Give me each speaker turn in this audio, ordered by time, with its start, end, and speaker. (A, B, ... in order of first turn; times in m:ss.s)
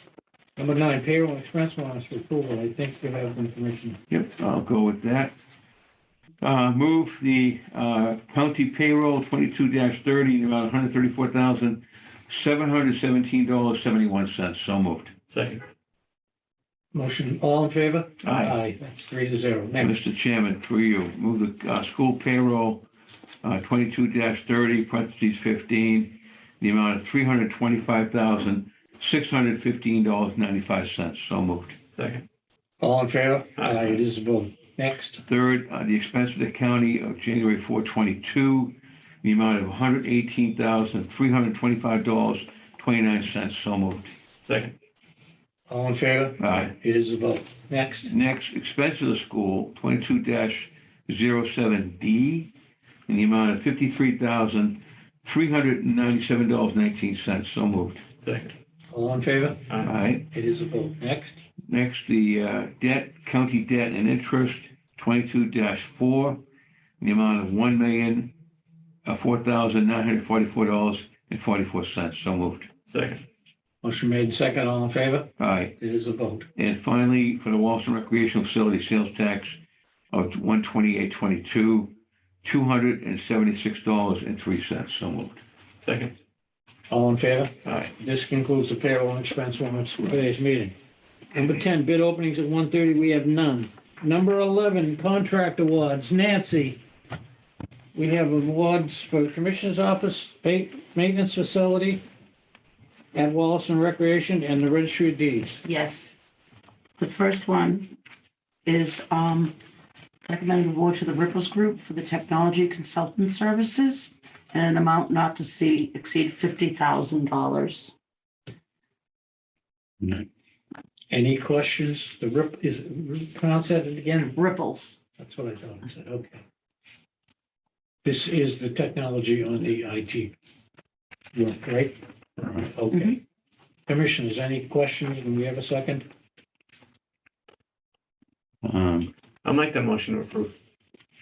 0:00.6-0:04.0 A
0:04.1-0:05.3 B
0:06.4-0:15.1 B
0:15.3-0:15.6 C
0:16.9-0:20.0 A
0:18.3-0:18.6 B
0:19.8-0:22.9 B
0:23.4-0:31.8 B
0:31.9-0:32.2 C
0:32.8-0:35.2 A
0:33.6-0:34.0 C
0:35.2-0:44.1 B
0:44.5-0:44.7 C
0:45.7-0:48.1 A
0:46.4-0:46.7 B
0:48.1-0:52.5 B
0:53.1-0:58.0 B
0:58.2-0:58.5 C
0:58.9-0:59.7 A
0:59.8-1:00.2 B
1:00.3-1:01.4 A
1:01.7-1:06.4 B
1:07.0-1:08.3 B
1:09.0-1:12.7 B
1:12.9-1:13.2 C
1:13.8-1:16.5 A
1:15.4-1:15.7 B
1:16.6-1:19.6 B
1:20.1-1:25.4 B
1:25.8-1:26.1 C
1:26.9-1:30.7 A
1:27.6-1:27.9 C
1:31.3-1:36.8 A
1:37.9-1:42.0 A
1:43.1-1:45.6 A
1:45.6-1:46.2 D
1:47.0-1:47.9 D
1:48.6-1:49.5 D
1:50.2-1:57.9 D
2:01.1-2:04.3 A
2:04.3-2:05.0 D
2:05.2-2:06.4 A
2:08.0-2:10.3 A
2:11.3-2:13.2 A
2:12.9-2:13.2 D
2:13.9-2:16.1 A
2:18.6-2:19.1 B
2:19.4-2:20.5 C